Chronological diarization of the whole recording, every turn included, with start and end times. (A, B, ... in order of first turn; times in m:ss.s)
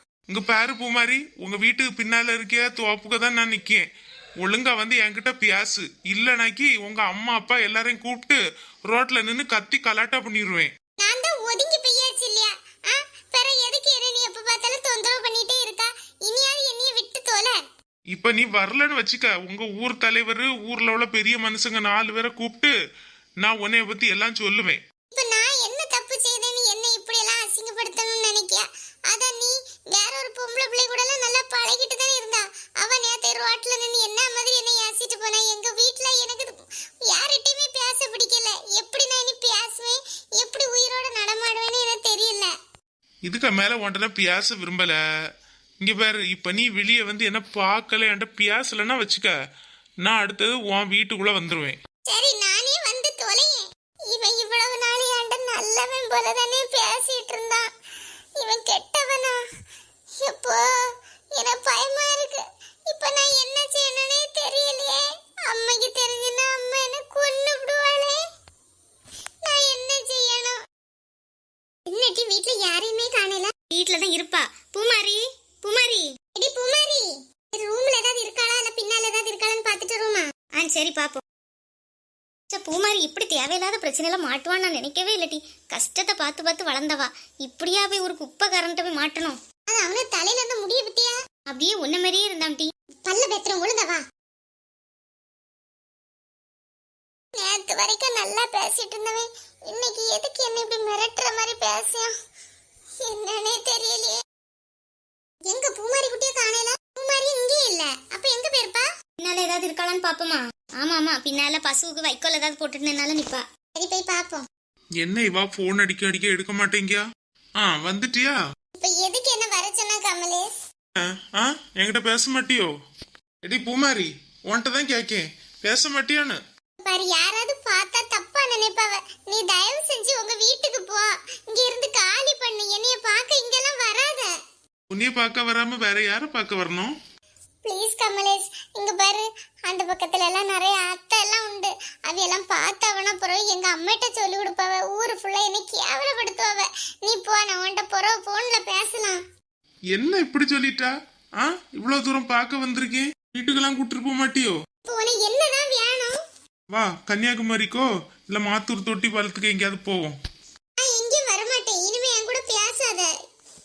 0:00.3-0:03.9 A
0:04.4-0:10.7 A
0:11.0-0:17.6 B
0:18.1-0:22.7 A
0:23.4-0:24.8 A
0:25.1-0:36.5 B
0:37.1-0:42.5 B
0:43.3-0:45.0 A
0:45.8-0:49.3 A
0:50.0-0:51.8 A
0:52.1-0:57.7 B
0:58.4-0:59.4 B
1:00.2-1:00.6 B
1:01.4-1:08.2 B
1:09.4-1:10.6 B
1:11.9-1:13.5 B
1:13.7-1:16.1 C
1:16.3-1:20.2 B
1:20.6-1:21.2 C
1:22.5-1:29.4 C
1:29.7-1:31.1 B
1:31.5-1:32.7 C
1:33.0-1:34.0 B
1:37.4-1:42.1 B
1:43.0-1:44.2 B
1:45.5-1:48.8 B
1:49.2-1:53.4 C
1:53.7-1:54.4 B
1:55.0-1:57.0 A
1:57.6-1:58.4 A
1:58.8-2:00.5 B
2:01.0-2:02.7 A
2:03.4-2:06.4 A
2:06.8-2:14.3 B
2:14.9-2:16.9 A
2:17.6-2:29.2 B
2:29.9-2:34.5 A
2:34.9-2:36.1 B
2:36.7-2:40.2 A
2:40.8-2:43.1 B